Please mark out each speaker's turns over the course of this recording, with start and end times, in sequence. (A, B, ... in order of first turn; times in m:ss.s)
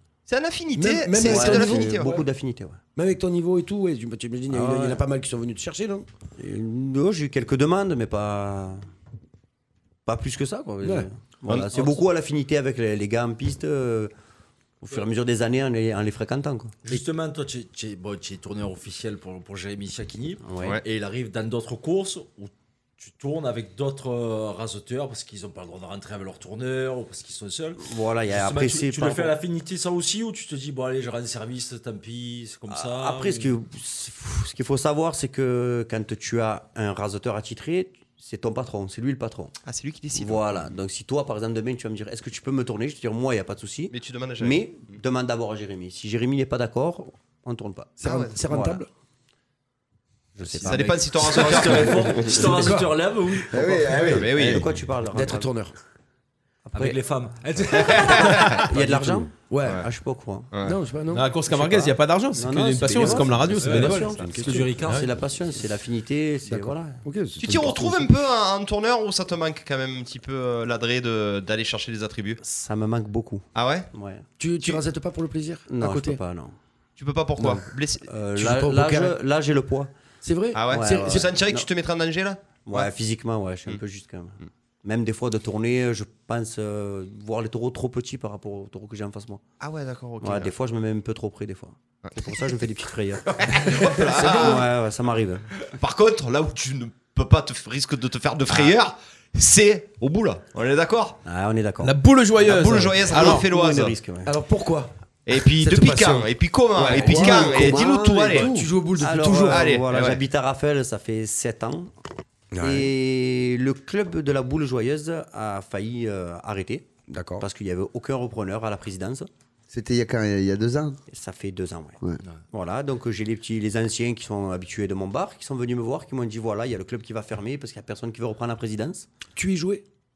0:00.3-0:02.2 A
0:00.8-0:02.3 B
0:01.2-0:02.8 C
0:03.0-0:06.1 B
0:04.5-0:05.0 C
0:06.4-0:08.8 C
0:10.1-0:14.1 C
0:10.8-0:11.1 B
0:11.5-0:11.9 A
0:14.8-0:16.8 C
0:16.8-0:33.5 D
0:20.4-0:20.8 C
0:27.8-0:29.4 C
0:32.7-0:39.5 C
0:39.7-0:40.6 A
0:40.1-0:48.8 C
0:43.9-0:44.9 A
0:48.0-0:48.9 B
0:48.0-0:48.4 A
0:50.4-0:50.9 C
0:50.6-0:52.3 A
0:50.6-0:54.1 D
0:51.6-0:55.8 B
0:53.5-0:54.4 E
0:54.0-0:54.7 A
0:54.2-0:55.5 C
0:56.7-0:57.0 C
0:56.7-0:58.6 D
0:57.7-0:58.7 A
0:58.1-0:59.9 B
0:58.6-1:00.5 C
1:00.5-1:00.8 A
1:00.6-1:01.9 B
1:01.1-1:04.1 F
1:01.5-1:07.0 C
1:03.0-1:03.3 B
1:03.6-1:05.1 D
1:04.1-1:04.8 B
1:04.8-1:05.1 F
1:06.5-1:08.1 B
1:07.4-1:12.4 A
1:12.4-1:14.3 C
1:13.6-1:13.9 A
1:14.4-1:16.2 B
1:15.7-1:16.6 C
1:17.0-1:18.1 A
1:17.4-1:19.9 C
1:18.4-1:19.2 B
1:20.2-1:21.3 B
1:20.6-1:22.9 A
1:20.7-1:21.7 C
1:22.7-1:29.4 C
1:29.6-1:30.5 A
1:30.2-1:35.5 C
1:32.0-1:32.7 A
1:33.3-1:34.7 A
1:33.7-1:34.7 B
1:35.6-1:41.2 A
1:41.2-1:42.0 C
1:41.8-1:43.4 F
1:42.4-1:44.0 A
1:42.7-1:44.4 C
1:44.3-1:46.3 B
1:45.3-1:48.5 A
1:46.8-1:47.7 C
1:46.9-1:48.7 E
1:46.9-1:49.8 B
1:49.0-1:51.9 C
1:49.5-1:50.2 A
1:52.5-1:52.9 B
1:52.6-1:56.9 C
1:57.1-1:57.5 B
1:57.4-1:59.3 C
1:59.7-2:01.0 E
2:01.1-2:02.0 C
2:02.5-2:09.1 C
2:09.4-2:09.8 B